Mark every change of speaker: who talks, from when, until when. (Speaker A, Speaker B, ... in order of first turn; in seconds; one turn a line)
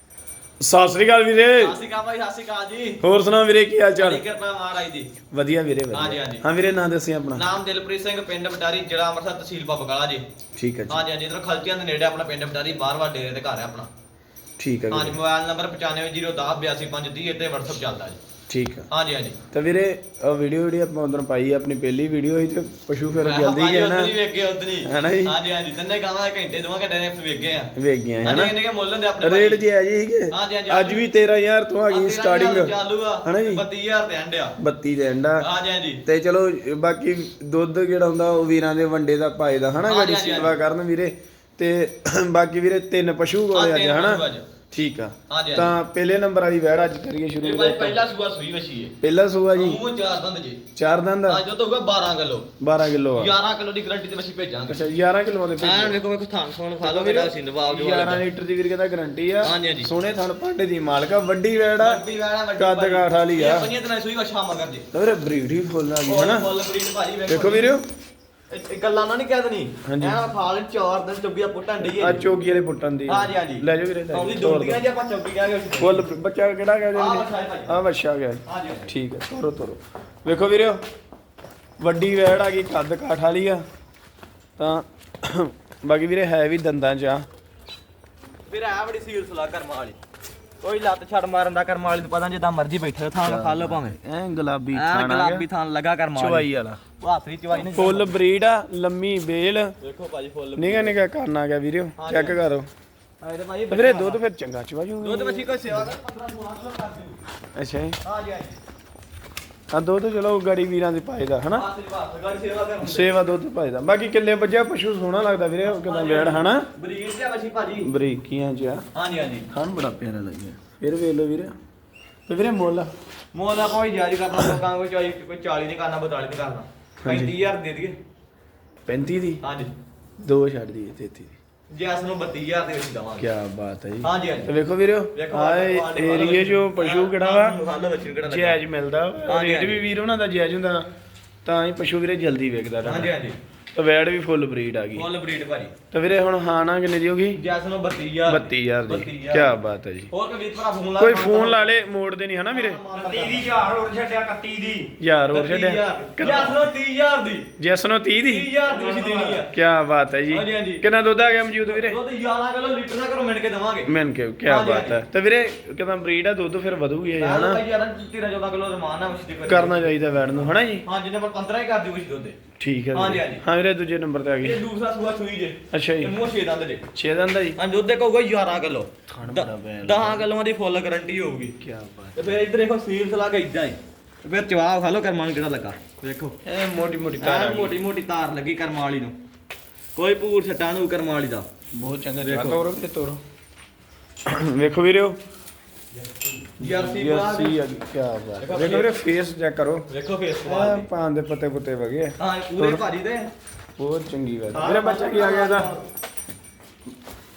Speaker A: 0.6-1.8
Speaker B: 1.6-3.0
Speaker A: 3.0-4.2
Speaker B: 4.0-5.1
Speaker A: 5.3-7.4
Speaker B: 5.9-6.4
Speaker B: 7.3-10.2
Speaker A: 10.6-11.0
Speaker B: 10.9-13.9
Speaker A: 14.6-15.2
Speaker B: 14.9-18.2
Speaker A: 18.5-18.9
Speaker B: 18.9-19.4
Speaker A: 19.5-24.1
Speaker B: 23.2-27.7
Speaker A: 24.8-25.4
Speaker A: 27.8-28.5
Speaker B: 28.2-29.6
Speaker A: 29.2-33.6
Speaker B: 30.3-31.1
Speaker B: 31.9-34.5
Speaker A: 34.6-35.5
Speaker B: 35.4-36.0
Speaker A: 36.0-48.0
Speaker B: 39.8-40.5
Speaker B: 43.5-44.5
Speaker B: 45.3-45.7
Speaker B: 47.4-48.9
Speaker A: 49.0-49.8
Speaker B: 49.5-50.6
Speaker A: 50.8-51.4
Speaker B: 51.3-52.5
Speaker A: 52.6-53.3
Speaker B: 53.1-55.0
Speaker A: 54.7-56.0
Speaker B: 55.6-58.2
Speaker A: 56.8-62.0
Speaker B: 59.4-59.9
Speaker B: 61.8-64.9
Speaker A: 62.5-63.7
Speaker A: 64.9-66.5
Speaker B: 66.1-67.8
Speaker A: 67.3-67.8
Speaker B: 68.5-72.2
Speaker A: 69.8-70.2
Speaker A: 71.8-74.8
Speaker B: 73.1-76.1
Speaker A: 75.8-80.8
Speaker B: 76.9-77.8
Speaker B: 78.5-78.9
Speaker A: 81.8-83.6
Speaker A: 84.6-87.2
Speaker B: 88.5-90.0
Speaker B: 90.6-94.0
Speaker A: 93.2-95.4
Speaker B: 94.7-98.1
Speaker A: 96.1-96.8
Speaker A: 97.6-99.7
Speaker B: 99.8-101.0
Speaker A: 100.5-102.7
Speaker B: 102.0-102.4
Speaker B: 103.2-104.2
Speaker A: 103.7-105.9
Speaker B: 105.0-107.2
Speaker A: 107.5-108.0
Speaker B: 108.0-108.6
Speaker A: 109.7-111.7
Speaker B: 111.5-113.1
Speaker A: 112.8-116.7
Speaker B: 115.6-117.9
Speaker A: 117.8-118.8
Speaker B: 118.9-119.5
Speaker A: 119.5-121.5
Speaker A: 122.3-122.9
Speaker B: 123.3-128.0
Speaker A: 127.0-127.3
Speaker A: 128.8-129.4
Speaker B: 129.4-129.7
Speaker A: 130.2-131.3
Speaker B: 131.7-133.3
Speaker A: 133.2-137.6
Speaker B: 134.0-134.5
Speaker B: 135.1-138.6
Speaker A: 138.2-140.9
Speaker B: 139.3-139.8
Speaker A: 141.4-143.1
Speaker B: 142.8-143.3
Speaker A: 143.7-145.0
Speaker B: 144.9-145.7
Speaker A: 145.9-147.4
Speaker B: 147.3-149.6
Speaker A: 148.2-150.1
Speaker B: 150.1-151.7
Speaker A: 151.0-152.8
Speaker B: 152.5-153.6
Speaker C: 152.9-154.9
Speaker A: 155.0-156.7
Speaker B: 155.3-157.5
Speaker A: 157.6-158.5
Speaker B: 158.2-159.5
Speaker C: 158.7-159.3
Speaker A: 159.4-162.0
Speaker B: 160.3-160.8
Speaker B: 161.7-163.9
Speaker A: 163.9-167.6
Speaker B: 164.4-165.0
Speaker B: 167.2-172.4
Speaker A: 169.4-170.8
Speaker A: 172.6-174.6
Speaker B: 172.9-173.4
Speaker B: 174.4-176.8
Speaker A: 175.7-176.2
Speaker A: 176.9-177.6
Speaker B: 177.6-181.6
Speaker A: 179.1-180.3
Speaker A: 181.6-182.4
Speaker B: 182.2-186.4
Speaker A: 186.4-187.8
Speaker B: 187.2-189.2
Speaker B: 189.9-191.5
Speaker A: 191.7-193.2
Speaker B: 192.2-192.6
Speaker A: 194.2-195.2
Speaker B: 196.5-197.6
Speaker A: 196.6-199.9
Speaker B: 198.4-199.0
Speaker B: 199.9-200.9
Speaker A: 200.4-202.8
Speaker B: 202.2-203.3
Speaker A: 203.8-205.7
Speaker B: 204.5-205.9